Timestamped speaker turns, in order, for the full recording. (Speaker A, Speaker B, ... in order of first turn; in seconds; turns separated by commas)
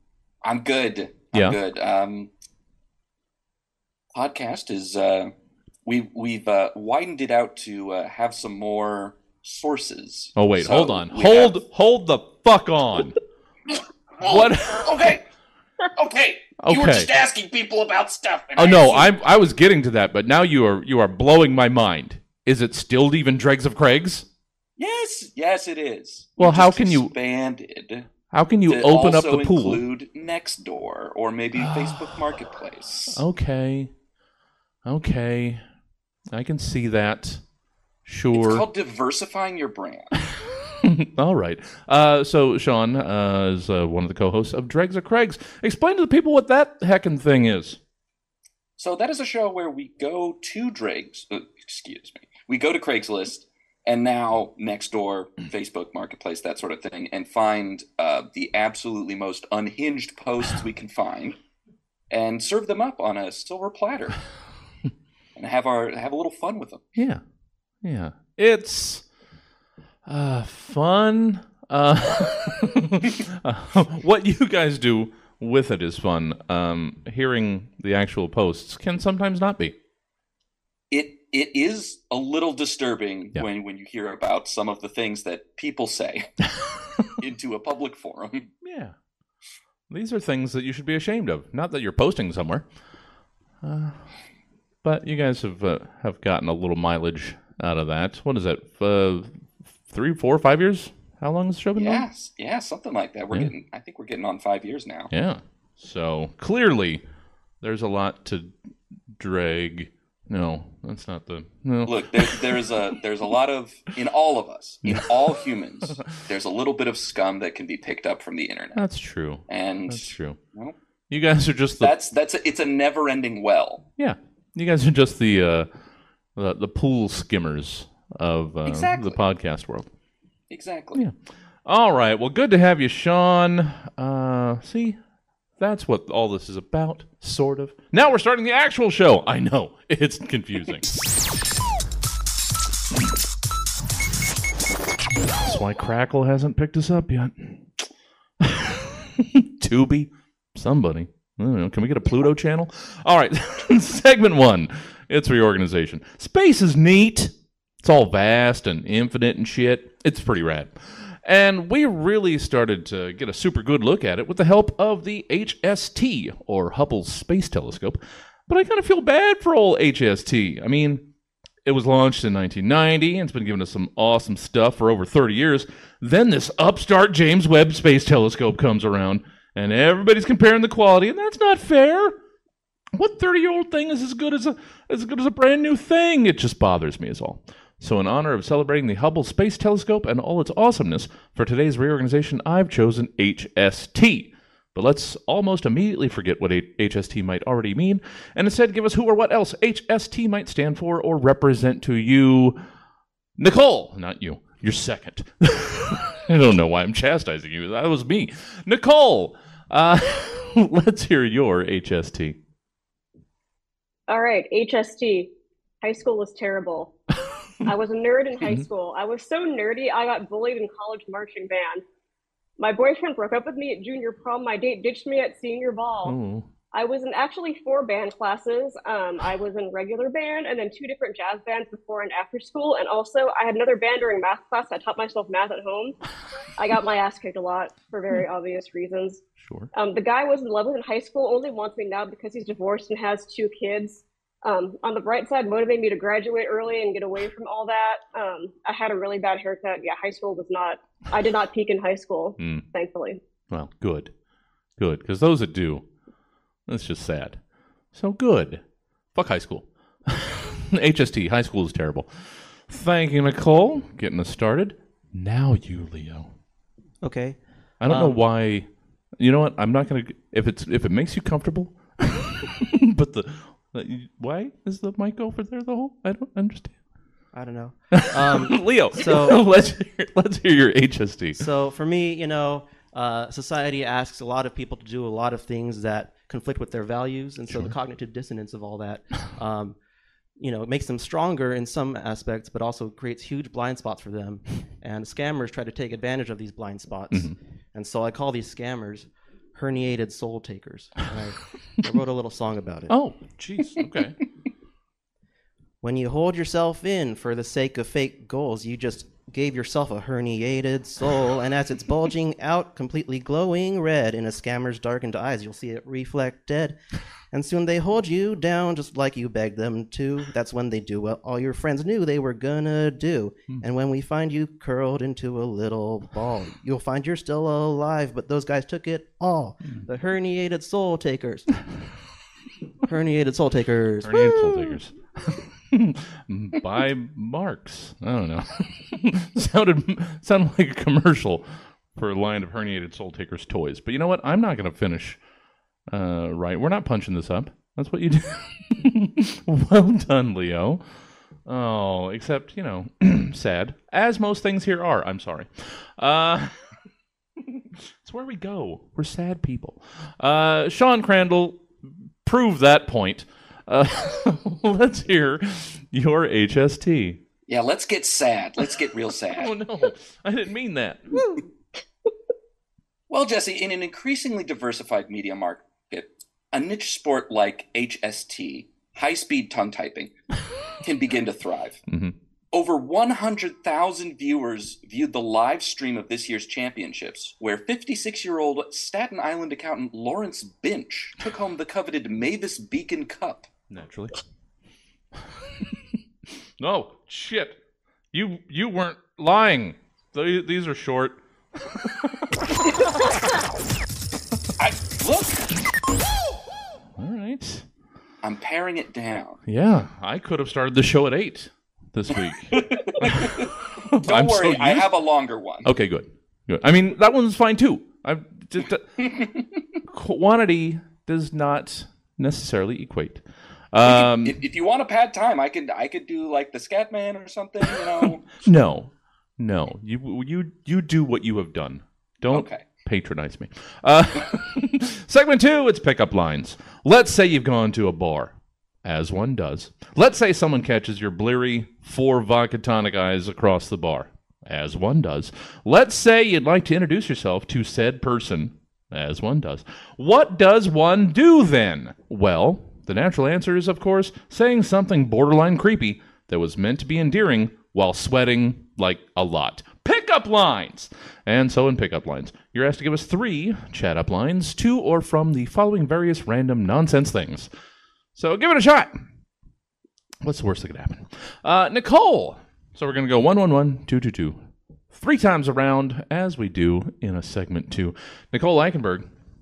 Speaker A: 0.4-2.3, Speaker B: 1.3-1.6, Speaker A: 4.1-5.3, Speaker A: 5.8-11.6, Speaker B: 10.3-13.2, Speaker B: 14.2-15.1, Speaker A: 14.2-15.2, Speaker A: 15.9-19.1, Speaker B: 16.6-17.1, Speaker B: 18.6-24.3, Speaker A: 24.8-28.1, Speaker B: 26.4-27.1, Speaker B: 28.3-29.8, Speaker A: 28.7-33.2, Speaker B: 31.6-32.1, Speaker B: 33.1-33.9, Speaker B: 34.8-35.6, Speaker B: 36.3-37.4, Speaker B: 38.0-38.6, Speaker A: 38.3-40.1, Speaker B: 40.8-47.8, Speaker A: 48.8-61.4, Speaker A: 62.1-64.2, Speaker A: 65.3-66.8, Speaker B: 66.9-67.2, Speaker B: 67.8-69.0, Speaker B: 70.0-79.7, Speaker A: 80.9-86.4, Speaker A: 87.2-88.5, Speaker B: 88.6-88.9, Speaker B: 89.9-92.7, Speaker B: 93.6-94.1, Speaker B: 94.8-102.0, Speaker A: 101.8-105.1, Speaker B: 105.1-107.0, Speaker B: 107.6-108.5, Speaker B: 109.1-112.7, Speaker A: 111.8-118.8, Speaker B: 118.7-120.4, Speaker A: 119.5-120.7, Speaker B: 121.1-121.9, Speaker A: 121.8-123.8, Speaker B: 124.0-125.7, Speaker B: 126.3-129.9, Speaker A: 128.6-129.2, Speaker A: 130.5-131.0, Speaker B: 131.7-135.0, Speaker B: 135.6-141.0, Speaker B: 145.4-147.8, Speaker B: 148.4-171.1, Speaker B: 171.6-182.2, Speaker B: 182.9-202.6, Speaker B: 203.4-212.4, Speaker C: 214.1-215.3, Speaker C: 215.8-216.9, Speaker C: 217.6-221.8, Speaker C: 222.6-226.1, Speaker B: 226.0-226.5, Speaker C: 226.7-235.9, Speaker C: 236.6-239.2, Speaker B: 239.4-239.7, Speaker C: 239.7-253.2, Speaker B: 252.4-252.6, Speaker B: 253.5-254.1, Speaker B: 254.8-255.8, Speaker B: 256.7-258.6, Speaker B: 259.1-266.3, Speaker D: 267.0-268.2, Speaker B: 267.8-268.7, Speaker B: 269.2-276.8, Speaker D: 277.3-279.4, Speaker B: 277.9-281.4, Speaker D: 281.4-289.8, Speaker D: 290.4-302.9, Speaker B: 302.9-304.2, Speaker D: 305.8-316.8, Speaker D: 317.3-331.5, Speaker D: 332.8-334.8, Speaker B: 334.0-345.2, Speaker B: 345.9-350.8, Speaker B: 351.4-356.6, Speaker B: 357.5-367.2, Speaker A: 367.5-369.5, Speaker B: 369.3-371.2, Speaker A: 373.1-380.1, Speaker A: 380.8-381.8, Speaker B: 381.9-382.1, Speaker A: 382.5-393.5, Speaker B: 393.7-394.2, Speaker B: 396.6-397.6, Speaker B: 398.1-402.9, Speaker A: 404.6-405.5, Speaker B: 407.0-407.6, Speaker A: 408.2-409.4, Speaker B: 409.4-414.9, Speaker A: 412.5-415.7, Speaker B: 415.6-419.2, Speaker A: 419.0-419.4, Speaker B: 419.9-424.4, Speaker A: 423.8-428.3, Speaker B: 428.4-467.5, Speaker A: 432.3-432.6, Speaker B: 468.1-468.9, Speaker B: 470.2-474.4, Speaker B: 474.9-479.1